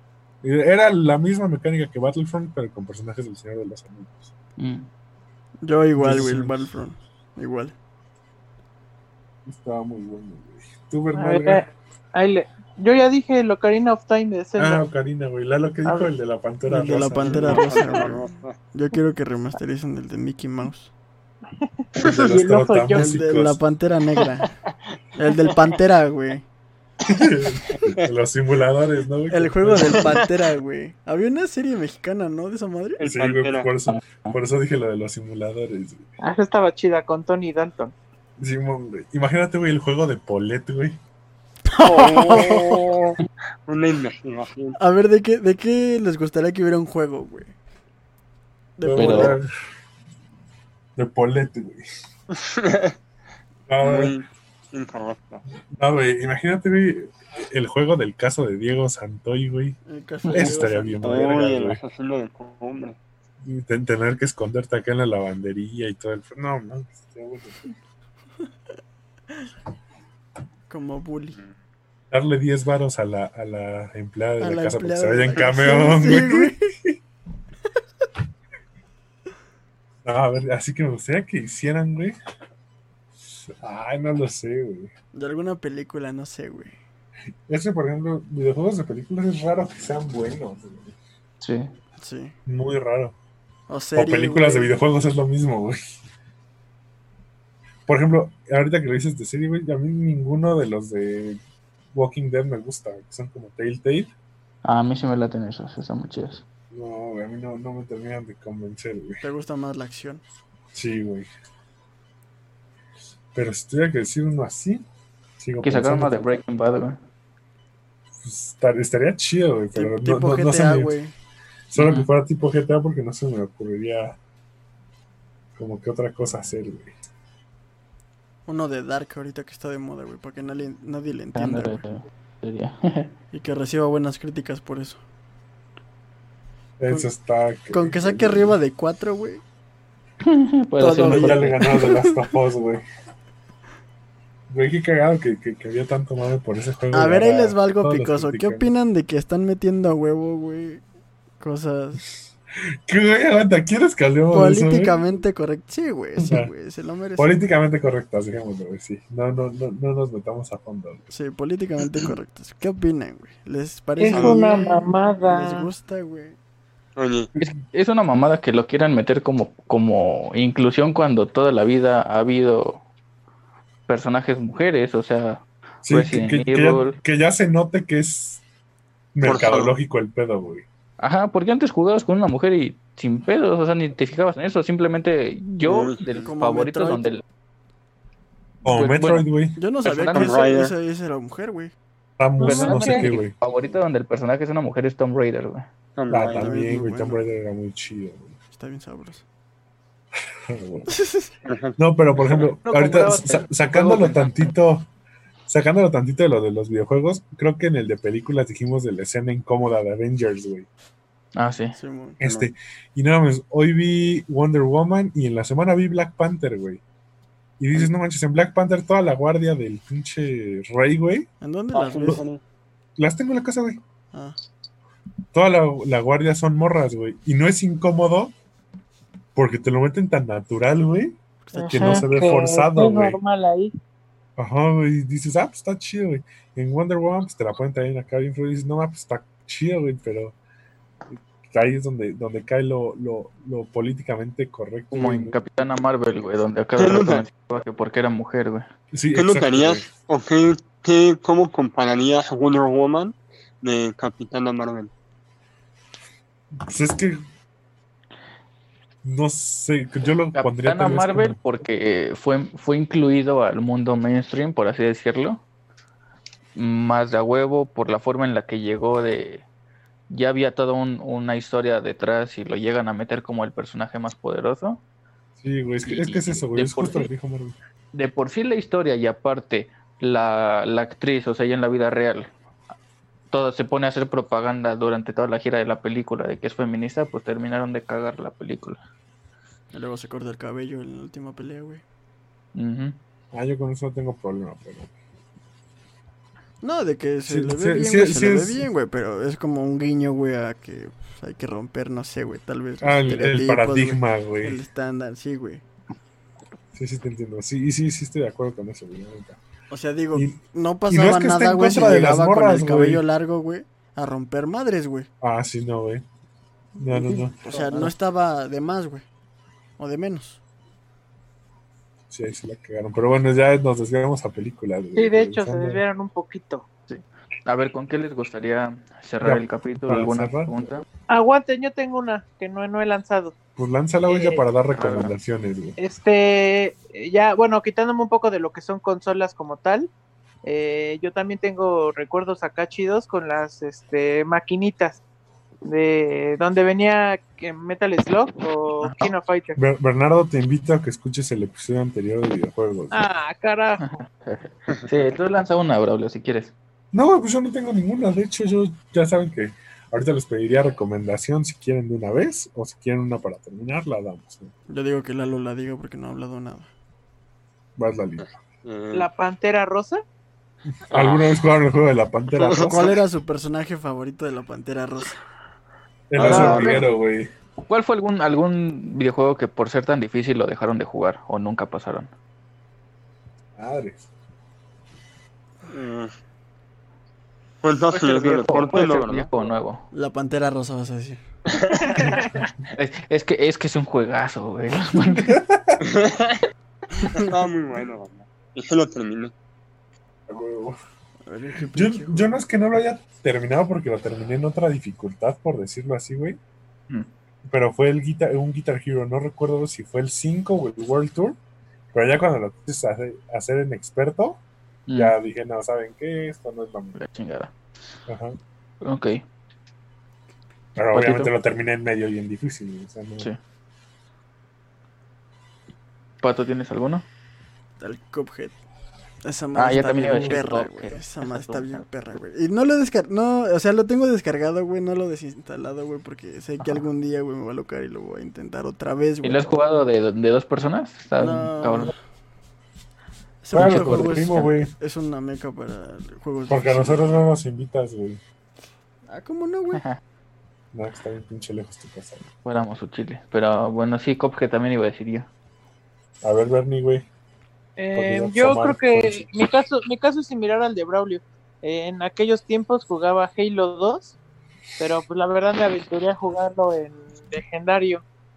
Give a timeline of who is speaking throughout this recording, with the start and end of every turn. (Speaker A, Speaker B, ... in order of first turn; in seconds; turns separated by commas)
Speaker A: 0.4-4.3, Speaker B: 4.6-4.9, Speaker C: 5.6-7.7, Speaker A: 6.0-6.7, Speaker A: 9.4-11.6, Speaker D: 11.2-14.8, Speaker A: 14.6-18.1, Speaker D: 15.8-16.1, Speaker C: 16.7-20.9, Speaker E: 17.2-18.5, Speaker D: 21.6-23.2, Speaker A: 22.0-23.6, Speaker C: 22.9-24.5, Speaker C: 25.2-26.4, Speaker A: 27.1-30.2, Speaker C: 29.3-33.0, Speaker E: 33.0-33.7, Speaker A: 33.0-36.1, Speaker B: 33.9-34.4, Speaker D: 36.2-37.9, Speaker A: 38.4-41.0, Speaker C: 41.7-42.8, Speaker E: 41.8-44.8, Speaker C: 44.8-47.5, Speaker C: 48.8-49.4, Speaker A: 48.8-49.5, Speaker B: 48.9-49.4, Speaker A: 51.0-51.8, Speaker E: 52.3-52.9, Speaker A: 53.7-54.1, Speaker E: 53.8-55.4, Speaker A: 55.8-59.8, Speaker C: 59.8-61.3, Speaker A: 60.3-61.8, Speaker E: 61.0-63.0, Speaker A: 63.4-67.6, Speaker C: 70.7-71.4, Speaker A: 72.1-77.0, Speaker C: 74.4-76.7, Speaker A: 80.0-82.2, Speaker A: 83.4-84.9, Speaker C: 85.1-86.7, Speaker A: 87.5-91.0, Speaker B: 91.4-91.7, Speaker C: 92.0-92.3, Speaker A: 92.5-93.2, Speaker C: 93.7-94.8, Speaker A: 93.9-95.8, Speaker A: 97.8-101.4, Speaker A: 101.9-104.1, Speaker B: 104.6-106.4, Speaker A: 106.7-109.2, Speaker C: 109.2-110.2, Speaker A: 110.7-111.3, Speaker A: 113.3-114.8, Speaker A: 115.4-116.2, Speaker B: 115.6-117.0, Speaker A: 118.2-120.9, Speaker C: 119.7-121.1, Speaker A: 121.7-124.2, Speaker B: 121.8-122.1, Speaker A: 125.5-126.9, Speaker C: 128.5-131.8, Speaker B: 131.3-133.1, Speaker C: 133.3-135.0, Speaker A: 136.8-138.6, Speaker C: 137.7-139.4, Speaker B: 140.2-141.8, Speaker C: 140.8-142.1, Speaker A: 141.1-142.8, Speaker A: 144.5-148.7, Speaker C: 146.9-150.8, Speaker C: 151.4-152.1, Speaker A: 152.8-154.9, Speaker C: 154.3-157.3, Speaker A: 156.2-156.5, Speaker A: 157.2-161.1, Speaker C: 161.1-166.4, Speaker D: 164.0-165.7, Speaker E: 164.1-164.4, Speaker E: 166.9-167.3, Speaker B: 167.4-172.8, Speaker B: 173.9-177.0, Speaker A: 175.8-178.4, Speaker A: 179.1-180.6, Speaker E: 179.2-179.7, Speaker B: 181.0-187.2, Speaker E: 185.6-186.0, Speaker C: 186.1-187.1, Speaker A: 188.6-189.6, Speaker B: 188.7-189.3, Speaker C: 189.6-191.7, Speaker B: 189.8-190.4, Speaker E: 190.1-190.7, Speaker A: 192.2-193.3, Speaker D: 192.4-193.1, Speaker B: 192.4-195.7, Speaker E: 195.9-196.5, Speaker A: 196.1-198.4, Speaker C: 196.3-197.2, Speaker C: 198.5-199.2, Speaker A: 200.5-200.9, Speaker C: 200.9-201.3, Speaker E: 201.4-202.5, Speaker A: 201.8-204.9, Speaker D: 202.6-204.2, Speaker B: 203.7-204.1, Speaker A: 205.5-210.7, Speaker B: 211.3-211.8, Speaker C: 211.7-212.2, Speaker A: 212.2-216.8, Speaker E: 212.2-212.5, Speaker A: 217.6-221.3, Speaker C: 221.4-222.2, Speaker E: 221.7-222.4, Speaker A: 223.0-223.8, Speaker C: 224.1-224.4, Speaker A: 225.3-228.3, Speaker A: 229.3-233.2, Speaker C: 231.5-232.1, Speaker D: 231.5-233.7, Speaker A: 234.4-240.3, Speaker A: 241.4-245.3, Speaker B: 244.9-248.7, Speaker E: 246.8-247.2, Speaker A: 248.9-249.9, Speaker E: 249.1-254.9, Speaker A: 256.5-257.2, Speaker A: 259.0-261.4, Speaker B: 260.3-265.4, Speaker B: 266.5-269.4, Speaker B: 270.1-274.8, Speaker A: 275.4-277.6, Speaker B: 275.8-277.1, Speaker B: 277.9-282.3, Speaker B: 283.3-288.8, Speaker C: 289.7-291.8, Speaker B: 292.5-292.9, Speaker A: 293.3-294.9, Speaker C: 296.6-305.6, Speaker A: 297.3-298.6, Speaker A: 302.8-304.6, Speaker A: 306.7-309.4, Speaker C: 309.7-315.1, Speaker A: 310.1-313.0, Speaker A: 315.2-316.0, Speaker A: 316.8-317.9, Speaker C: 317.1-319.1, Speaker C: 319.8-320.4, Speaker A: 322.1-325.8, Speaker D: 324.9-326.6, Speaker B: 326.9-330.8, Speaker A: 329.2-330.5, Speaker D: 331.1-333.3, Speaker A: 333.6-335.8, Speaker D: 334.1-334.4, Speaker B: 334.8-335.1, Speaker D: 335.8-339.9, Speaker D: 340.4-345.0, Speaker D: 345.6-349.6, Speaker B: 348.8-349.1, Speaker A: 349.6-353.0, Speaker D: 352.9-353.9, Speaker B: 353.8-356.5, Speaker A: 356.9-364.5, Speaker C: 364.7-366.7, Speaker A: 367.8-368.2, Speaker E: 368.2-369.1, Speaker D: 368.9-370.0, Speaker A: 370.6-372.9, Speaker E: 370.9-371.4, Speaker E: 372.3-372.9, Speaker C: 372.5-375.2, Speaker A: 376.1-377.3, Speaker E: 376.1-376.8, Speaker D: 376.2-376.9, Speaker B: 377.7-382.1, Speaker A: 383.6-384.1, Speaker E: 385.7-386.1, Speaker E: 387.6-389.3, Speaker B: 387.9-389.9, Speaker C: 389.9-391.2, Speaker E: 391.5-392.0, Speaker D: 391.8-392.3, Speaker B: 392.6-395.3, Speaker A: 395.0-395.8, Speaker E: 395.8-396.4, Speaker E: 397.1-399.3, Speaker A: 400.3-400.8, Speaker C: 401.3-402.3, Speaker A: 401.7-406.4, Speaker A: 407.4-411.4, Speaker A: 411.9-414.4, Speaker B: 414.9-415.1, Speaker A: 414.9-416.9, Speaker B: 416.9-417.5, Speaker A: 418.1-418.4, Speaker B: 418.8-419.2, Speaker A: 420.8-423.3, Speaker B: 420.9-421.3, Speaker B: 426.2-427.0, Speaker C: 427.8-428.6, Speaker C: 429.2-439.5, Speaker B: 429.5-431.8, Speaker B: 436.6-436.9, Speaker B: 439.2-441.9, Speaker C: 441.2-441.9, Speaker C: 443.4-447.2, Speaker B: 443.5-444.5, Speaker A: 443.5-444.7, Speaker A: 446.5-448.2, Speaker C: 449.1-449.8, Speaker B: 449.7-450.0, Speaker A: 450.7-452.2, Speaker B: 452.3-455.3, Speaker A: 456.2-457.1, Speaker D: 457.8-464.1, Speaker A: 457.9-459.5, Speaker D: 464.8-468.0